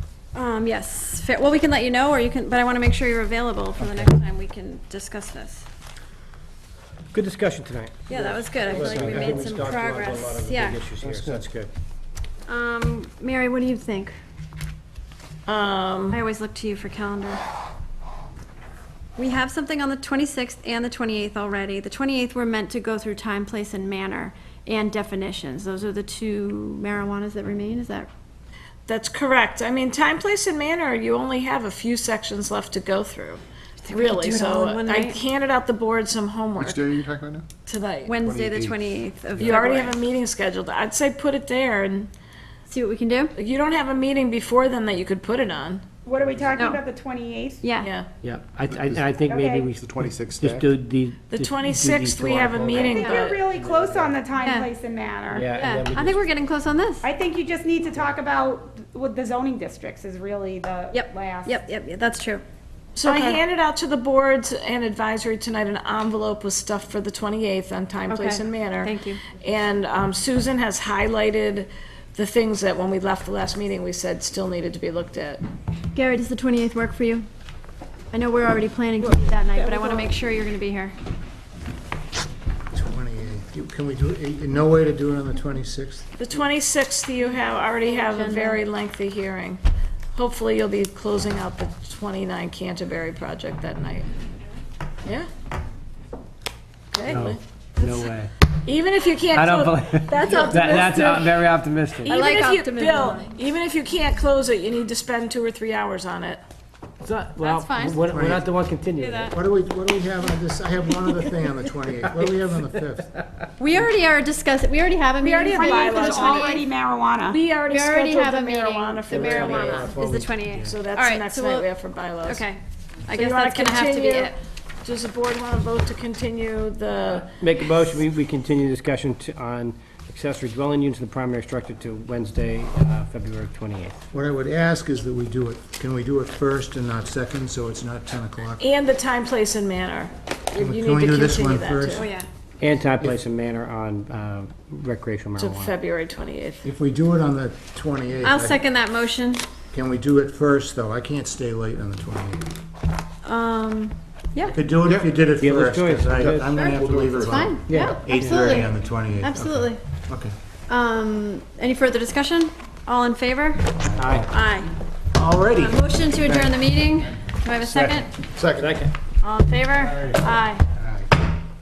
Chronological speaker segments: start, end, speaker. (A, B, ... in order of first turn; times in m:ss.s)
0:00.3-0:05.6 A
0:03.8-0:04.1 B
0:07.1-0:11.7 C
0:08.1-0:10.8 A
0:08.7-0:09.6 B
0:11.0-0:11.4 B
0:12.5-0:14.2 A
0:15.4-0:16.2 D
0:16.1-0:17.4 A
0:19.2-0:28.1 A
0:28.9-0:33.4 D
0:33.8-0:35.2 A
0:33.9-0:36.9 D
0:36.6-0:37.4 E
0:37.6-0:38.2 D
0:38.0-0:40.0 A
0:38.3-0:38.7 E
0:39.4-0:42.1 D
0:42.7-0:43.3 A
0:43.4-0:45.8 D
0:46.0-0:47.6 F
0:46.5-0:46.8 A
0:47.6-0:47.9 A
0:47.8-0:48.1 D
0:48.2-0:52.9 C
0:48.7-0:49.1 E
0:49.2-0:49.7 F
0:49.8-0:50.7 E
0:51.3-0:53.4 D
0:52.6-0:55.5 F
0:52.9-0:53.2 A
0:54.4-0:54.7 A
0:55.3-0:56.3 C
0:55.4-0:57.1 A
0:57.0-1:01.6 F
1:00.9-1:02.4 A
1:02.9-1:15.4 D
1:03.0-1:03.4 A
1:08.1-1:09.2 A
1:15.9-1:17.3 A
1:18.1-1:21.0 A
1:19.0-1:20.1 D
1:22.7-1:26.0 B
1:26.2-1:29.6 D
1:27.8-1:28.7 A
1:30.1-1:34.1 D
1:35.0-1:35.3 D
1:36.9-1:37.8 D
1:37.0-1:38.3 C
1:38.6-1:41.3 D
1:39.3-1:42.2 C
1:42.0-1:46.4 D
1:42.0-1:43.3 A
1:47.0-1:49.3 C
1:47.4-1:48.2 A
1:48.1-1:48.4 B
1:49.0-1:49.3 A
1:49.3-1:53.1 B
1:53.6-1:56.6 A
1:55.2-1:56.6 D
1:55.4-1:57.4 F
1:57.3-1:59.9 D
1:57.6-2:01.7 A
1:59.1-2:00.3 C
2:00.6-2:02.4 D
2:02.2-2:04.3 A
2:03.1-2:07.3 D
2:07.4-2:14.0 C
2:14.1-2:18.6 B
2:18.6-2:22.1 D
2:20.6-2:22.0 B
2:21.9-2:22.3 A
2:22.6-2:25.7 C
2:25.4-2:26.7 D
2:26.6-2:28.6 B
2:28.2-2:29.4 A
2:29.7-2:32.5 B
2:33.2-2:33.6 D
2:33.4-2:34.6 A
2:34.5-2:40.3 B
2:34.8-2:36.6 C
2:36.1-2:37.4 E
2:36.6-2:39.8 A
2:37.6-2:38.4 C
2:40.7-2:44.7 A
2:43.8-2:44.3 B
2:44.0-2:44.3 C
2:45.1-2:48.8 B
2:45.5-2:48.2 A
2:48.6-2:48.9 C
2:49.2-2:50.6 A
2:49.8-2:50.2 B
2:50.8-2:51.1 B